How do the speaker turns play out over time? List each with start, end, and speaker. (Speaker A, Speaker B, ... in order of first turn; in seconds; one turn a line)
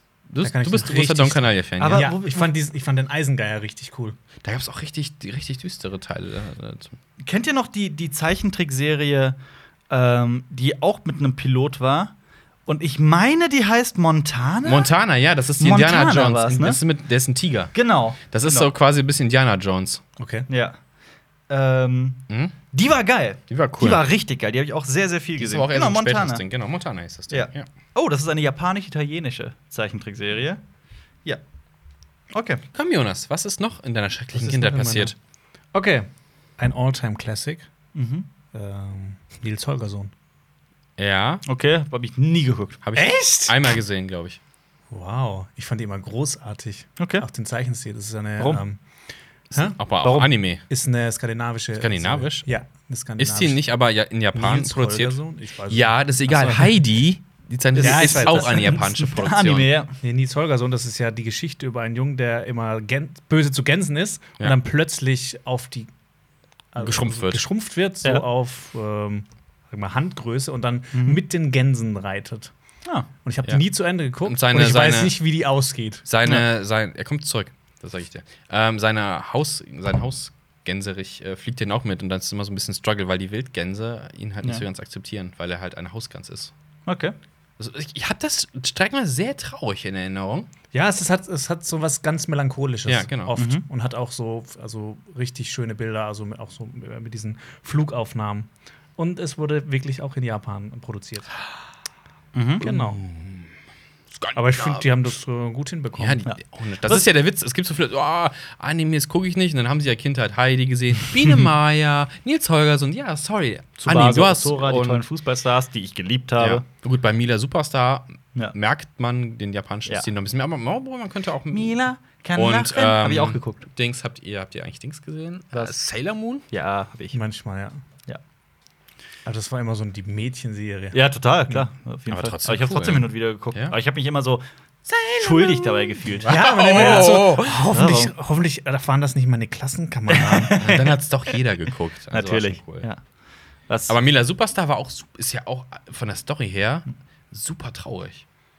Speaker A: 0.3-2.1
Speaker B: 0.4-4.2
Speaker C: 1.8-2.5
Speaker A: 4.4-7.0
Speaker C: 7.2-9.3
Speaker C: 9.9-12.1
Speaker C: 12.7-14.9
Speaker A: 14.6-17.7
Speaker C: 15.6-16.8
Speaker C: 17.7-18.7
Speaker A: 18.3-20.0
Speaker B: 20.2-20.5
Speaker C: 20.5-20.8
Speaker C: 21.5-26.4
Speaker A: 22.3-22.5
Speaker A: 23.5-24.0
Speaker A: 25.4-27.6
Speaker C: 27.3-30.6
Speaker C: 32.3-32.6
Speaker A: 32.7-35.1
Speaker B: 34.3-35.1
Speaker B: 35.7-37.7
Speaker C: 37.9-38.2
Speaker B: 38.5-40.1
Speaker A: 41.0-41.4
Speaker C: 41.5-42.8
Speaker A: 42.8-44.4
Speaker B: 42.9-43.7
Speaker B: 44.9-48.8
Speaker C: 47.0-47.2
Speaker B: 49.5-49.8
Speaker A: 49.5-50.6
Speaker C: 50.0-50.3
Speaker B: 50.7-53.6
Speaker A: 51.8-52.5
Speaker A: 53.2-59.7
Speaker B: 54.3-56.8
Speaker C: 57.8-60.0
Speaker B: 57.8-58.8
Speaker B: 60.0-65.9
Speaker B: 66.7-72.5
Speaker A: 66.8-67.4
Speaker C: 70.9-71.2
Speaker B: 73.2-76.0
Speaker A: 74.2-75.2
Speaker A: 76.0-86.5
Speaker C: 86.9-87.1
Speaker A: 87.6-90.5
Speaker B: 90.7-101.3
Speaker A: 92.9-93.3
Speaker C: 93.3-93.6
Speaker C: 102.3-102.7
Speaker B: 102.6-103.0
Speaker A: 102.6-103.5
Speaker A: 104.1-104.9
Speaker B: 104.3-106.2
Speaker A: 106.0-115.0
Speaker C: 106.2-107.0
Speaker C: 113.8-116.6
Speaker A: 116.4-121.7
Speaker C: 121.5-123.7
Speaker A: 122.3-126.5
Speaker C: 126.5-127.2
Speaker B: 127.1-127.8
Speaker B: 129.2-131.6
Speaker C: 130.9-134.4
Speaker A: 132.1-133.7
Speaker A: 134.9-137.6
Speaker C: 135.0-138.1
Speaker B: 136.2-140.7
Speaker C: 140.1-141.4
Speaker A: 140.4-142.9
Speaker C: 142.1-143.0
Speaker C: 143.7-144.0
Speaker A: 143.9-148.2